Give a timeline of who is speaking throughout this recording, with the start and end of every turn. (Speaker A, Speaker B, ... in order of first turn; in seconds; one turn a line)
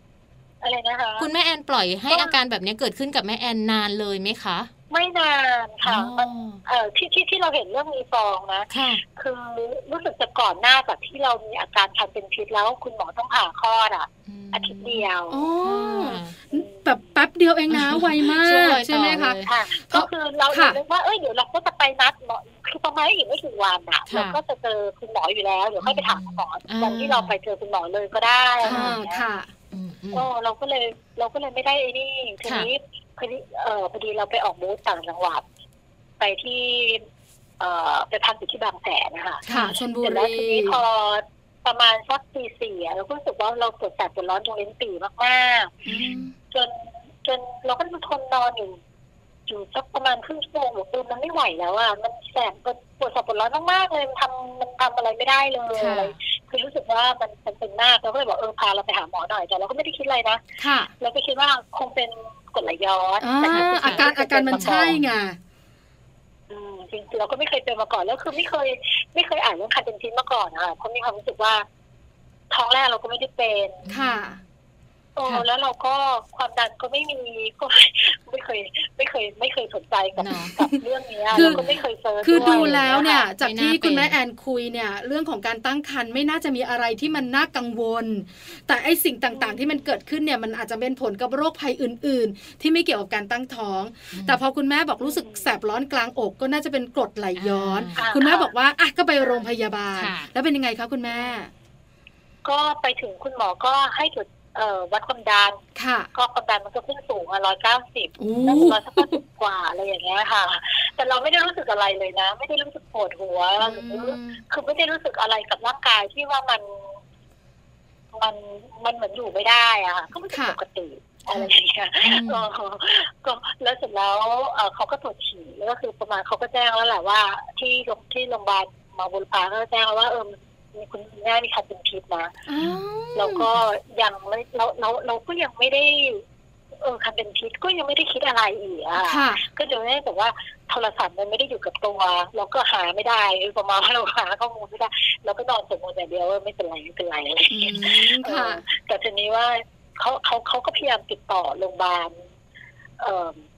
Speaker A: 0.6-1.3
Speaker B: 1.2-4.7
Speaker A: 2.1-2.3
Speaker A: 4.9-15.5
Speaker B: 5.8-6.6
Speaker B: 8.7-9.0
Speaker B: 14.3-15.1
Speaker C: 15.3-20.8
Speaker B: 15.6-16.4
Speaker B: 17.7-19.5
Speaker A: 19.4-29.2
Speaker B: 24.1-24.4
Speaker B: 25.8-27.4
Speaker B: 28.6-29.0
Speaker C: 28.6-29.5
Speaker B: 29.7-30.3
Speaker A: 30.1-35.4
Speaker B: 32.4-32.7
Speaker A: 36.2-37.0
Speaker A: 37.6-39.4
Speaker B: 39.5-39.8
Speaker C: 39.5-40.8
Speaker A: 40.0-45.8
Speaker C: 45.9-46.3
Speaker B: 45.9-46.3
Speaker A: 46.5-48.8
Speaker A: 49.5-60.4
Speaker C: 55.8-56.1
Speaker B: 55.8-56.2
Speaker C: 60.6-60.9
Speaker A: 61.0-65.0
Speaker C: 63.2-65.4
Speaker B: 63.4-65.0
Speaker A: 66.5-71.7
Speaker A: 72.5-73.8
Speaker B: 73.8-74.2
Speaker C: 73.9-74.4
Speaker A: 75.2-83.2
Speaker B: 80.2-80.6
Speaker B: 81.3-81.8
Speaker C: 81.3-81.7
Speaker C: 82.2-101.5
Speaker B: 82.3-84.2
Speaker B: 94.1-94.4
Speaker A: 95.0-95.5
Speaker B: 97.4-98.1
Speaker A: 98.0-98.5
Speaker B: 100.0-100.3
Speaker A: 102.5-105.6
Speaker C: 105.8-106.1
Speaker A: 106.2-116.9
Speaker C: 108.2-109.2
Speaker C: 113.6-114.4
Speaker A: 118.1-132.3
Speaker C: 120.3-120.6
Speaker B: 122.0-122.5
Speaker C: 132.5-133.5
Speaker A: 133.2-136.2
Speaker A: 136.8-152.2
Speaker C: 139.0-139.4
Speaker C: 147.5-148.7
Speaker A: 153.0-153.4